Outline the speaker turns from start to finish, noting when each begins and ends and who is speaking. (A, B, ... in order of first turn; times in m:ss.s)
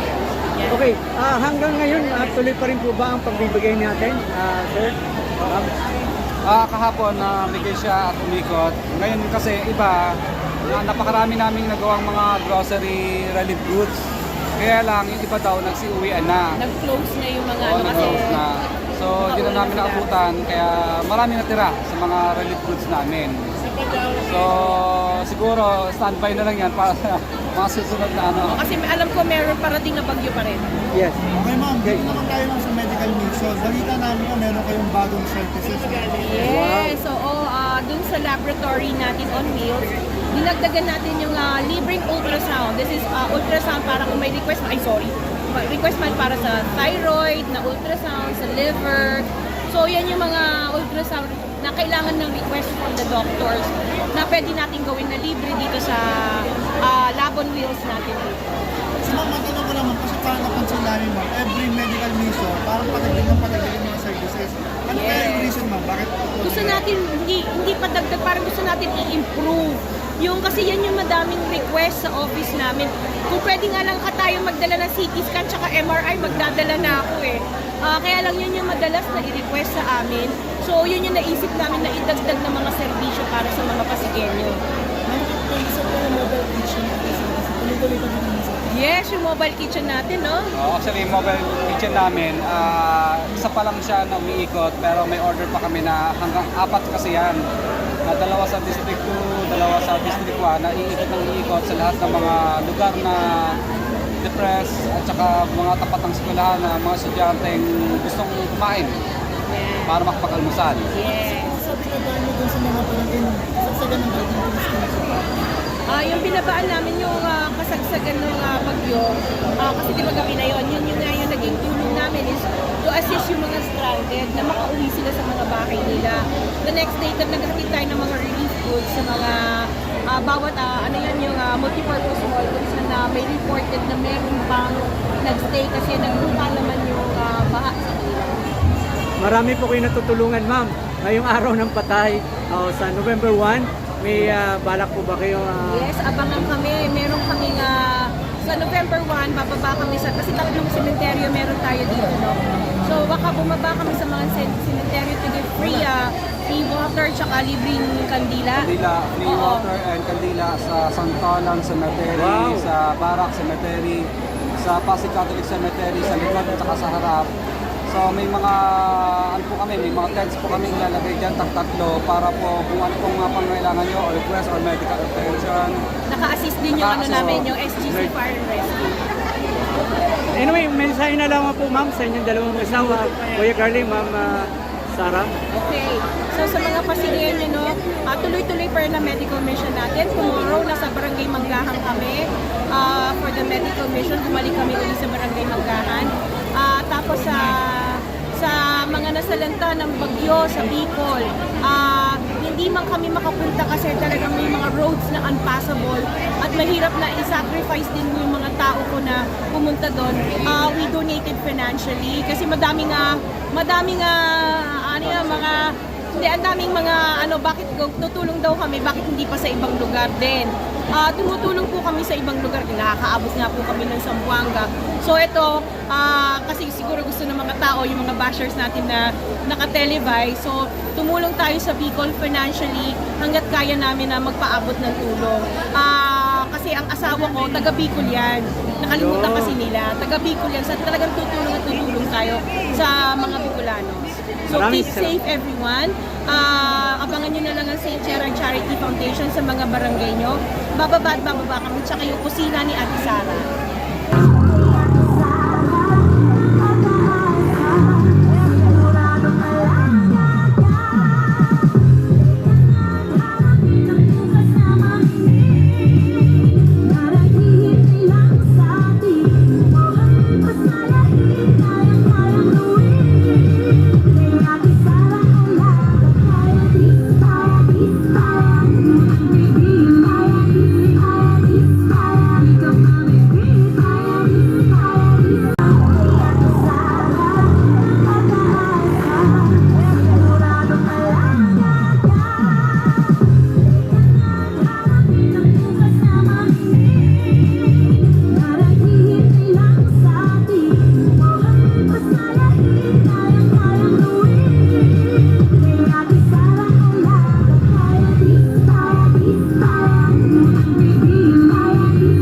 0:00.7-0:05.9 A
0:06.4-0:14.0 B
0:14.6-0:16.5 B
0:16.6-0:18.4 C
0:17.6-0:28.6 B
0:19.2-0:20.1 C
0:28.5-0:30.6 C
0:31.0-0:31.2 A
0:31.3-0:36.4 D
0:36.1-0:58.6 C
0:36.5-0:36.9 A
0:59.0-1:06.8 D
1:04.9-1:05.5 C
1:06.4-1:24.6 C
1:25.1-1:28.6 D
1:28.6-1:30.5 C
1:30.6-1:37.4 B
1:38.0-1:43.6 B
1:44.2-1:49.0 B
1:49.5-1:50.0 C
1:49.9-1:50.9 B
1:50.9-1:51.6 C
1:51.6-1:55.2 D
1:55.9-2:18.5 C
2:19.2-2:25.9 A
2:25.6-2:38.7 C
2:38.6-2:47.3 B
2:39.2-2:39.7 C
2:42.1-2:42.7 A
2:47.9-2:55.8 B
2:56.1-2:59.0 C
2:56.8-2:57.5 B
3:00.3-3:05.3 A
3:05.5-4:13.5 C
3:58.9-3:59.6 A
4:04.5-4:05.1 A
4:14.7-4:15.3 A
4:19.2-4:19.6 C
4:27.6-4:29.2 C
4:58.7-5:01.1 C
5:06.1-5:07.5 C